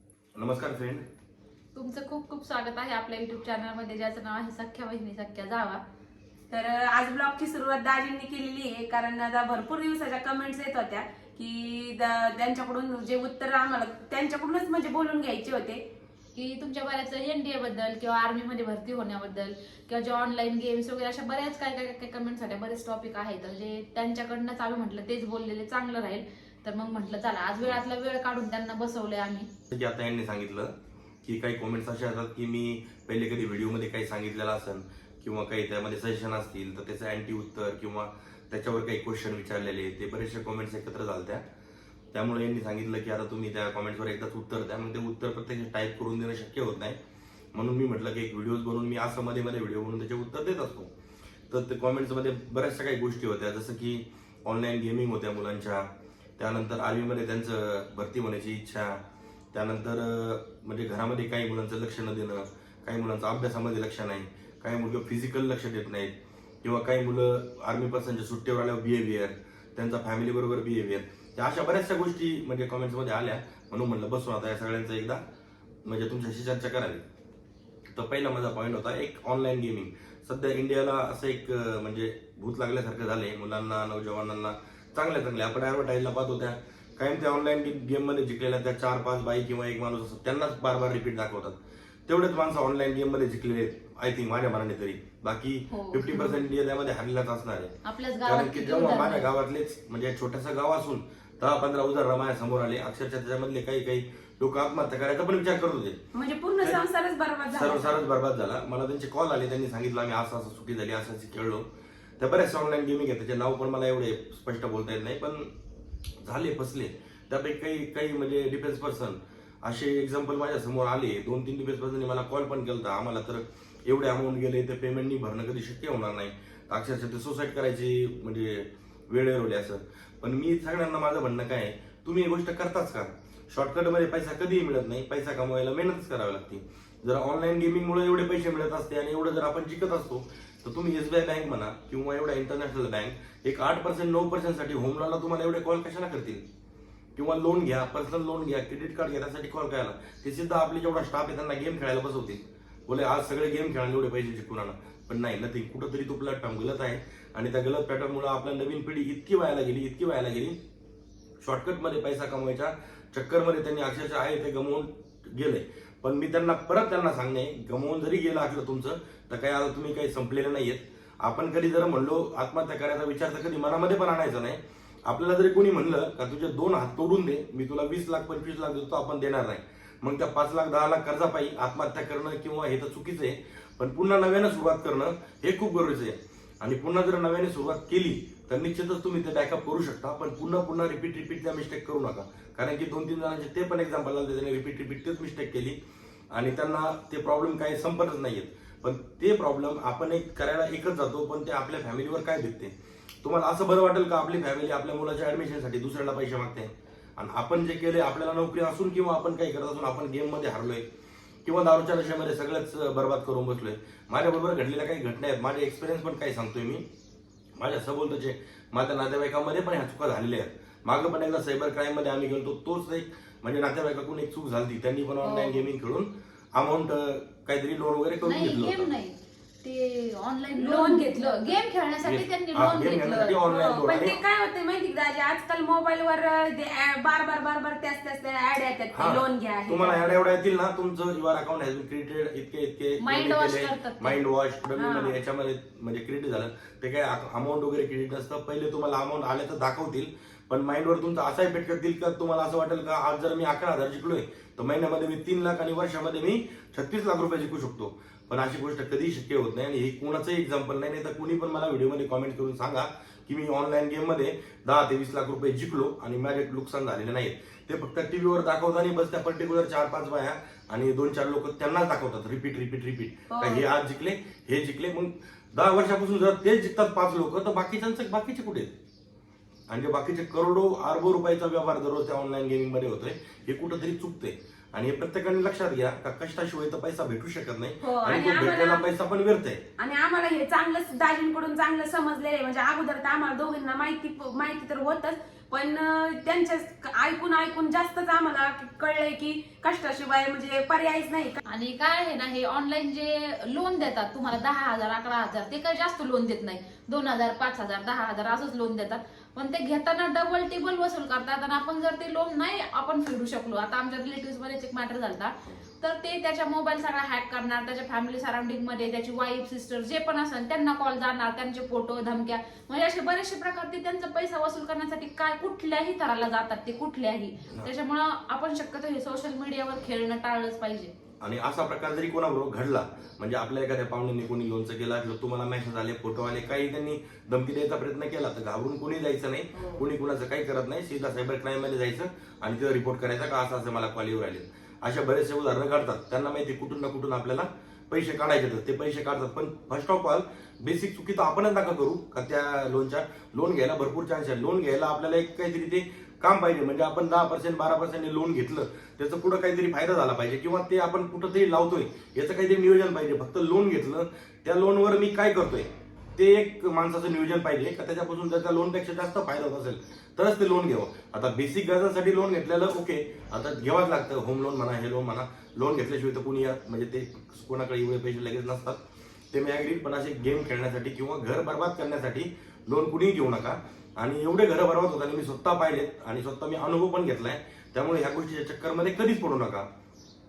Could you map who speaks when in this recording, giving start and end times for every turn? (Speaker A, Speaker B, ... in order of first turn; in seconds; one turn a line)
Speaker A: 0.3-1.0
Speaker B: 1.7-5.8
Speaker C: 6.5-15.8
Speaker B: 16.3-29.5
Speaker A: 29.7-41.4
Speaker A: 42.1-47.0
Speaker A: 47.5-50.9
Speaker A: 51.5-75.2
Speaker A: 75.8-77.0
Speaker A: 77.9-91.5
Speaker A: 92.1-97.7
Speaker B: 95.7-96.4
Speaker B: 97.8-99.3
Speaker A: 98.2-106.0
Speaker C: 106.1-108.0
Speaker A: 107.5-111.7
Speaker A: 112.2-115.5
Speaker A: 116.2-146.4
Speaker A: 147.2-160.6
Speaker A: 161.4-195.8
Speaker A: 196.3-210.8
Speaker A: 211.4-216.8
Speaker A: 217.6-228.9
Speaker B: 225.2-225.7
Speaker B: 228.2-233.4
Speaker C: 230.6-231.6
Speaker A: 232.0-234.2
Speaker C: 233.4-240.2
Speaker A: 238.9-278.8
Speaker B: 243.0-244.2
Speaker C: 244.8-245.2
Speaker C: 273.3-273.6
Speaker A: 279.7-289.6
Speaker C: 287.8-288.9
Speaker C: 289.8-301.4
Speaker B: 301.4-330.9
Speaker A: 331.2-378.8
Speaker A: 379.3-389.7